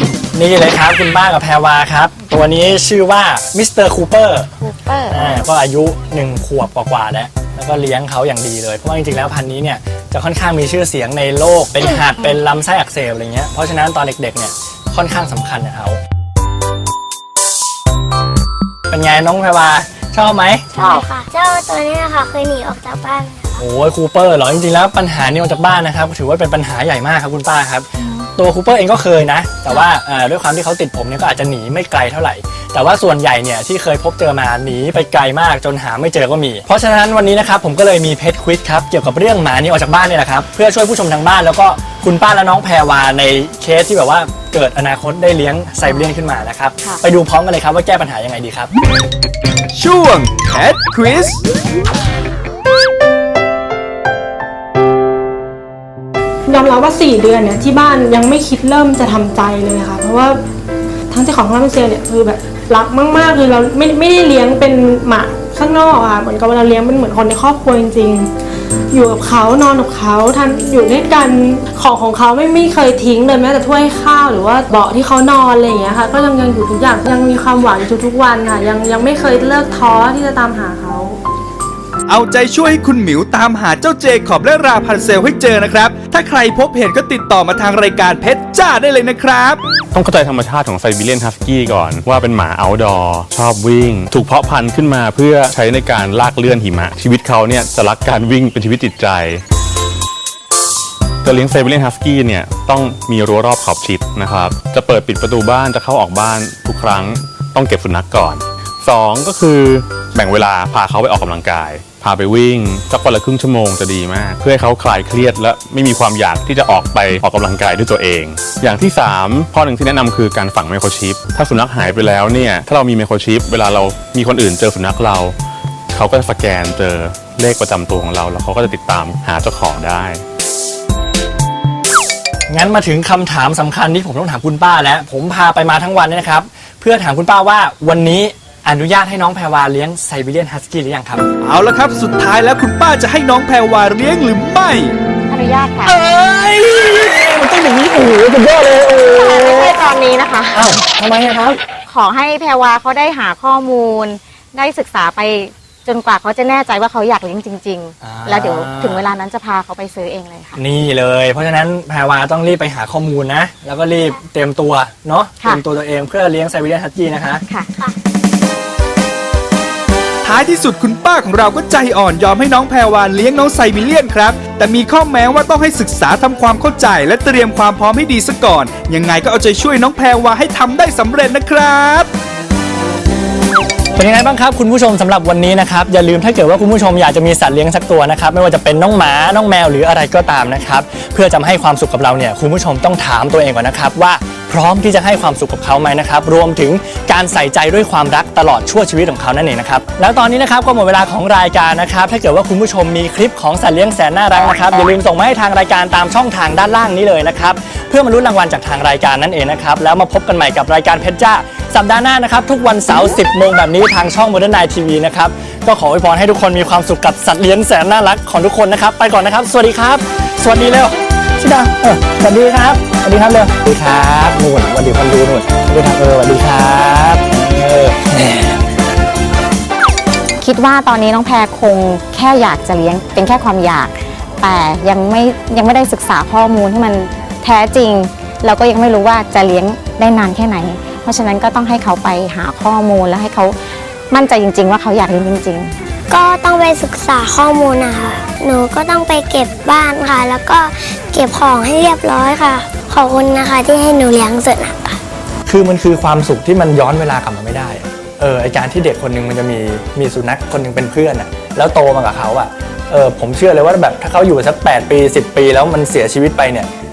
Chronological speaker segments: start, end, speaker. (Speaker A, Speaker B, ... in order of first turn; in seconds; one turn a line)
Speaker A: 0.3-4.5
Speaker B: 4.6-5.1
Speaker A: 5.1-16.0
Speaker A: 18.9-20.7
Speaker C: 20.7-23.6
Speaker A: 23.6-48.7
Speaker D: 49.7-51.4
Speaker E: 56.5-60.4
Speaker E: 61.1-68.3
Speaker E: 68.9-81.2
Speaker D: 82.1-89.6
Speaker F: 89.9-99.4
Speaker F: 101.2-125.3
Speaker F: 125.9-130.2
Speaker A: 132.5-141.2
Speaker D: 141.4-144.9
Speaker B: 145.3-145.9
Speaker A: 145.8-149.5
Speaker B: 149.1-150.8
Speaker A: 150.5-151.6
Speaker B: 151.9-160.6
Speaker A: 158.0-159.1
Speaker A: 160.6-167.4
Speaker D: 170.2-182.1
Speaker A: 183.9-228.6
Speaker B: 230.4-243.5
Speaker B: 244.1-245.7
Speaker C: 246.1-255.0
Speaker A: 255.5-266.7